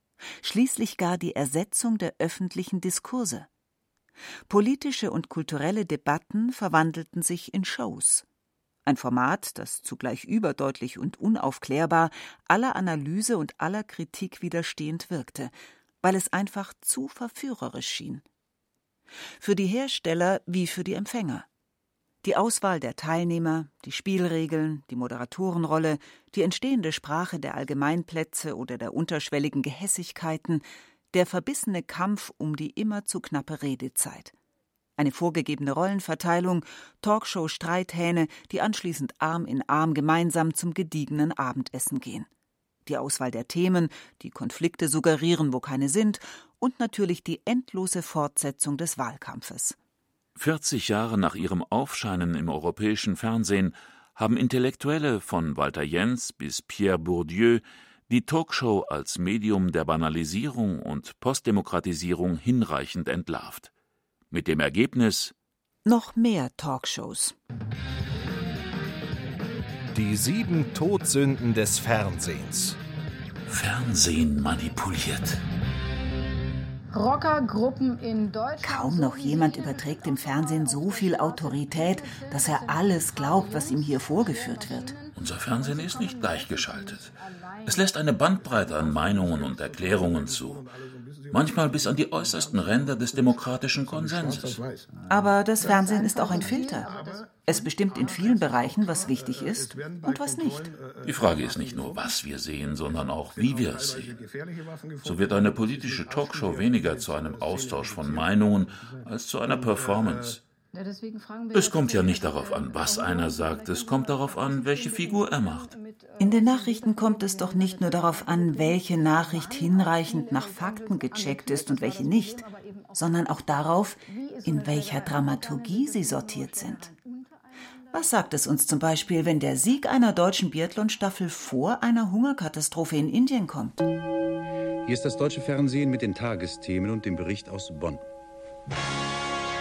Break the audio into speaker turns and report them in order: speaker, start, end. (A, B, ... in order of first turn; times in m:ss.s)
0:00.4-0:03.5 A
0:04.5-0:08.2 A
0:08.8-0:18.2 A
0:19.4-0:21.4 A
0:22.2-0:34.3 A
0:35.0-0:42.3 A
0:42.8-0:49.8 A
0:50.4-1:03.7 B
1:04.3-1:05.3 B
1:05.8-1:07.4 A
1:09.9-1:12.8 C
1:13.5-1:15.4 B
1:16.9-1:25.1 D
1:18.6-1:24.9 A
1:25.1-1:30.7 B
1:25.7-1:27.7 D
1:31.3-1:34.6 B
1:35.1-1:36.9 A
1:36.4-1:37.0 D
1:37.4-1:40.7 A
1:41.0-1:44.2 B
1:45.0-1:50.4 B
1:50.7-1:56.2 D
1:51.5-1:55.7 B
1:56.2-2:02.4 A
1:56.9-2:03.0 D
2:02.9-2:06.9 A
2:04.1-2:07.3 D
2:07.9-2:13.8 A
2:14.8-2:18.0 E